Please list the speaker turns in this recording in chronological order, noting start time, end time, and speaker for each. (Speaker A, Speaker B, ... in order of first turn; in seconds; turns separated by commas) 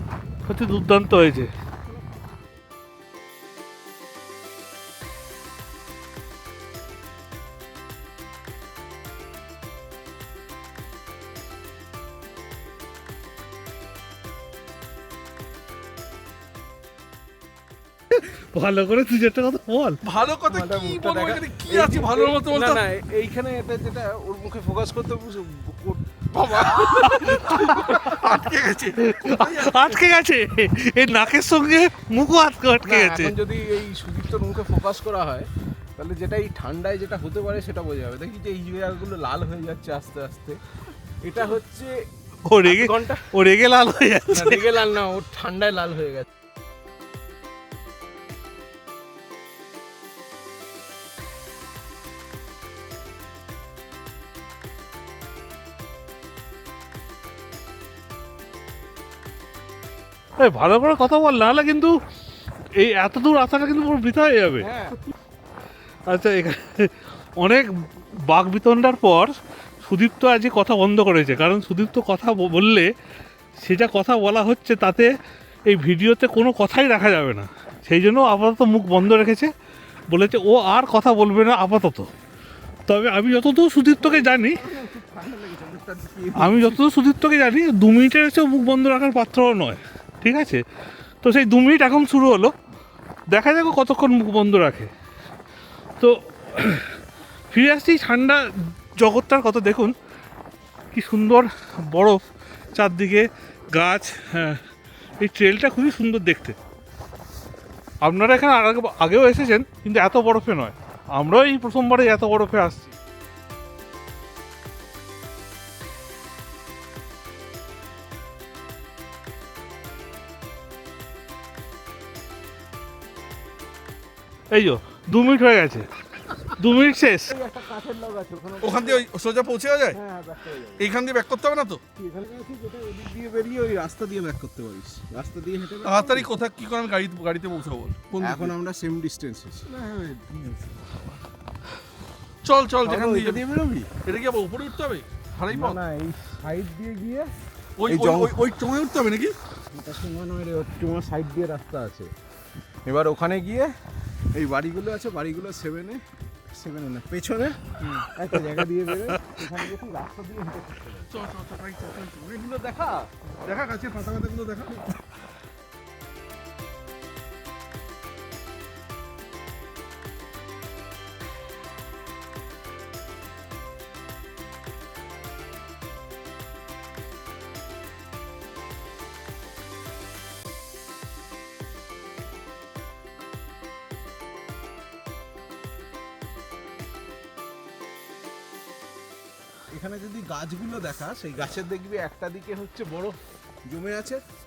Speaker A: 0.4-1.5, Speaker A: 18.1-20.0, Speaker B: 20.0-22.9, Speaker C: 20.4-28.0, Speaker B: 26.4-30.1, Speaker A: 27.1-28.0, Speaker A: 29.0-33.3, Speaker C: 32.8-40.6, Speaker C: 41.2-42.0, Speaker A: 42.5-44.7, Speaker C: 42.6-43.3, Speaker C: 44.3-46.3, Speaker A: 60.4-61.9, Speaker A: 62.8-64.7, Speaker C: 64.6-65.0, Speaker A: 66.1-72.9, Speaker A: 73.6-75.1, Speaker A: 75.7-79.5, Speaker A: 80.1-82.1, Speaker A: 82.9-84.6, Speaker C: 83.9-86.8, Speaker A: 86.4-90.6, Speaker A: 91.2-92.5, Speaker A: 93.3-94.9, Speaker A: 96.0-97.0, Speaker A: 97.5-99.9, Speaker A: 100.9-102.2, Speaker A: 102.7-104.6, Speaker A: 105.2-106.5, Speaker A: 108.0-112.9, Speaker A: 124.5-125.8, Speaker A: 126.4-127.3, Speaker C: 127.3-129.0, Speaker B: 128.6-130.0, Speaker C: 129.9-130.9, Speaker B: 130.8-131.8, Speaker C: 132.0-136.3, Speaker B: 135.8-138.5, Speaker C: 138.2-139.7, Speaker B: 139.7-140.9, Speaker B: 142.4-143.5, Speaker C: 142.8-143.9, Speaker B: 144.0-145.8, Speaker C: 145.5-147.3, Speaker B: 147.8-149.3, Speaker C: 147.8-148.4, Speaker C: 149.7-152.1, Speaker C: 152.8-153.7, Speaker C: 154.3-157.6, Speaker B: 157.8-158.1, Speaker C: 158.1-161.2, Speaker B: 161.1-164.9, Speaker C: 189.7-193.1, Speaker C: 193.7-194.2